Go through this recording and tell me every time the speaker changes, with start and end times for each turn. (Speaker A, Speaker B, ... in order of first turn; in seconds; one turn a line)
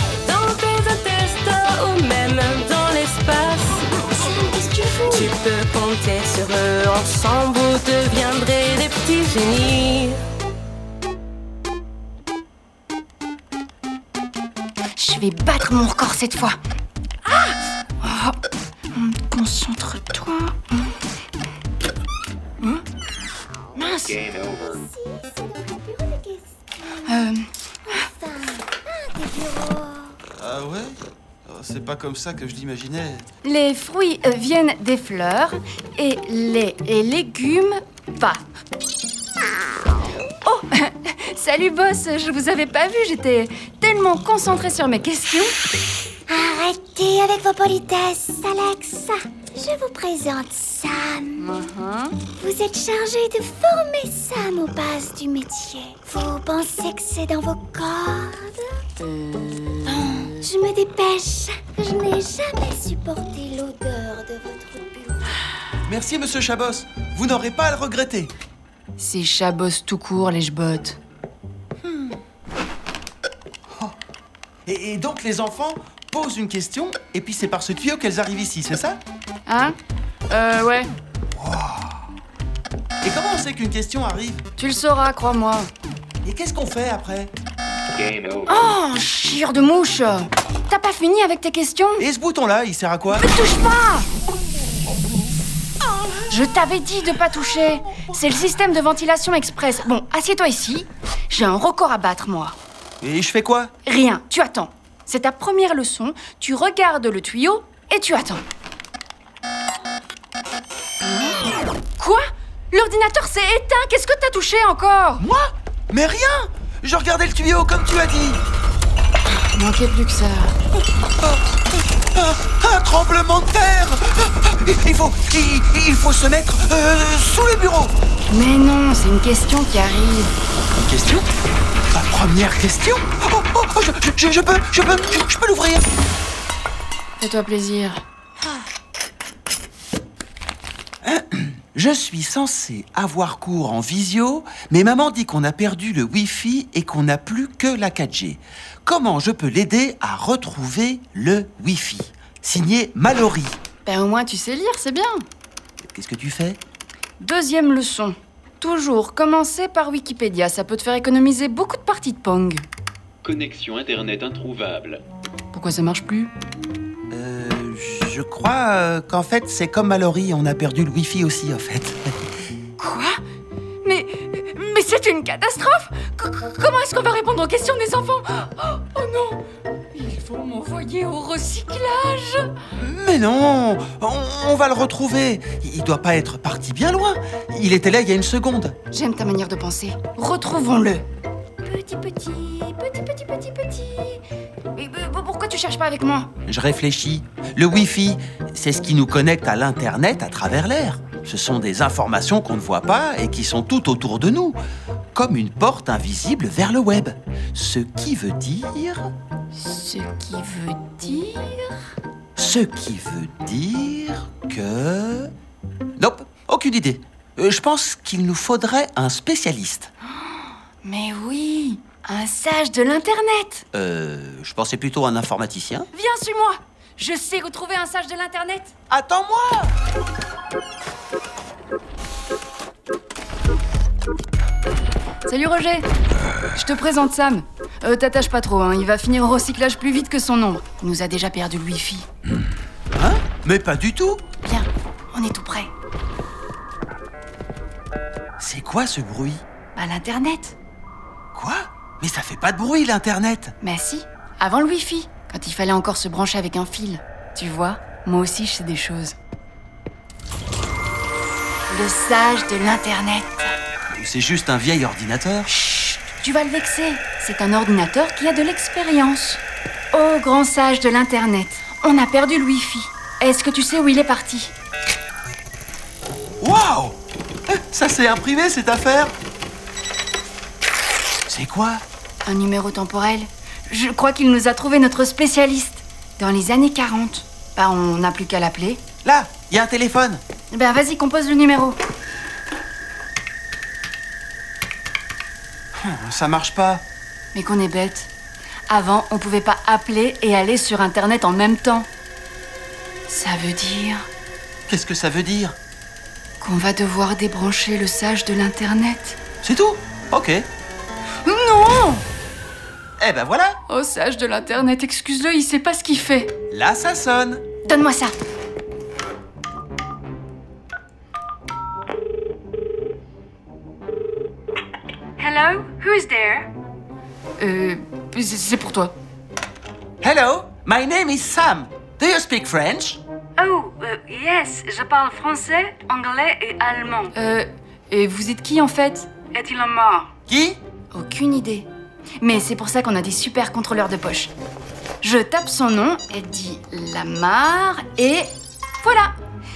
Speaker A: 0.2-4.0
Speaker B: 4.1-5.3
Speaker A: 5.1-10.2
Speaker B: 15.0-16.6
Speaker B: 17.3-18.4
Speaker B: 18.9-21.0
Speaker C: 23.4-27.3
Speaker B: 23.8-24.1
Speaker D: 23.9-24.8
Speaker B: 27.1-27.5
Speaker C: 27.9-30.2
Speaker E: 30.4-33.3
Speaker B: 33.4-38.4
Speaker B: 40.4-45.6
Speaker C: 46.3-51.6
Speaker B: 51.4-52.2
Speaker C: 52.3-58.9
Speaker B: 59.1-60.4
Speaker C: 60.3-65.3
Speaker E: 65.8-68.3
Speaker B: 69.0-71.0
Speaker E: 71.8-72.2
Speaker E: 74.7-79.0
Speaker B: 79.5-79.8
Speaker B: 80.3-80.9
Speaker E: 81.4-82.1
Speaker E: 83.0-84.5
Speaker B: 84.6-85.7
Speaker E: 86.2-87.3
Speaker D: 87.9-88.7
Speaker B: 88.5-92.1
Speaker E: 92.0-93.3
Speaker B: 93.1-94.1
Speaker B: 96.3-102.6
Speaker E: 103.0-103.7
Speaker B: 103.8-108.4
Speaker B: 111.0-115.3
Speaker E: 115.2-118.4
Speaker B: 119.3-120.6
Speaker E: 122.1-127.9
Speaker B: 128.3-130.3
Speaker E: 130.7-131.3
Speaker E: 131.9-135.9
Speaker B: 137.2-138.0
Speaker E: 141.0-153.6
Speaker B: 153.8-155.3
Speaker E: 155.9-156.6
Speaker B: 157.2-162.7
Speaker D: 163.2-165.1
Speaker B: 165.5-166.3
Speaker E: 167.1-172.2
Speaker B: 172.8-173.2
Speaker B: 173.8-182.6
Speaker E: 182.8-188.8
Speaker B: 188.9-191.1
Speaker B: 191.6-194.2
Speaker B: 194.8-196.3
Speaker E: 196.5-204.6
Speaker E: 205.1-209.1
Speaker B: 209.5-211.8
Speaker E: 212.4-215.3
Speaker E: 216.0-219.9
Speaker B: 220.2-223.7
Speaker E: 223.7-225.9
Speaker B: 225.9-228.7
Speaker E: 228.9-229.8
Speaker B: 235.2-235.9
Speaker B: 236.5-242.1
Speaker E: 242.9-244.2
Speaker B: 244.4-245.7
Speaker E: 248.4-249.4
Speaker B: 249.8-250.6
Speaker E: 251.3-253.5
Speaker B: 253.6-259.2
Speaker B: 261.7-263.6
Speaker E: 263.9-265.5
Speaker B: 265.5-274.5
Speaker E: 276.4-277.0
Speaker E: 277.5-279.1
Speaker E: 281.3-281.8
Speaker B: 282.2-288.8
Speaker E: 289.0-290.2
Speaker B: 290.5-291.8
Speaker E: 295.8-296.9
Speaker B: 297.3-298.1
Speaker B: 298.7-301.9
Speaker B: 303.1-304.1
Speaker E: 304.7-305.6
Speaker B: 306.4-309.2
Speaker E: 309.4-310.5
Speaker B: 311.2-312.0
Speaker E: 313.0-313.6
Speaker B: 313.7-316.3
Speaker E: 316.5-317.4
Speaker B: 317.6-318.1
Speaker F: 325.2-326.5
Speaker B: 325.2-326.4
Speaker B: 327.4-328.9
Speaker E: 330.0-333.0
Speaker F: 333.4-337.1
Speaker B: 337.1-340.1
Speaker F: 339.3-340.1
Speaker E: 340.3-340.6
Speaker B: 340.9-341.7
Speaker B: 342.2-344.3
Speaker B: 345.0-349.1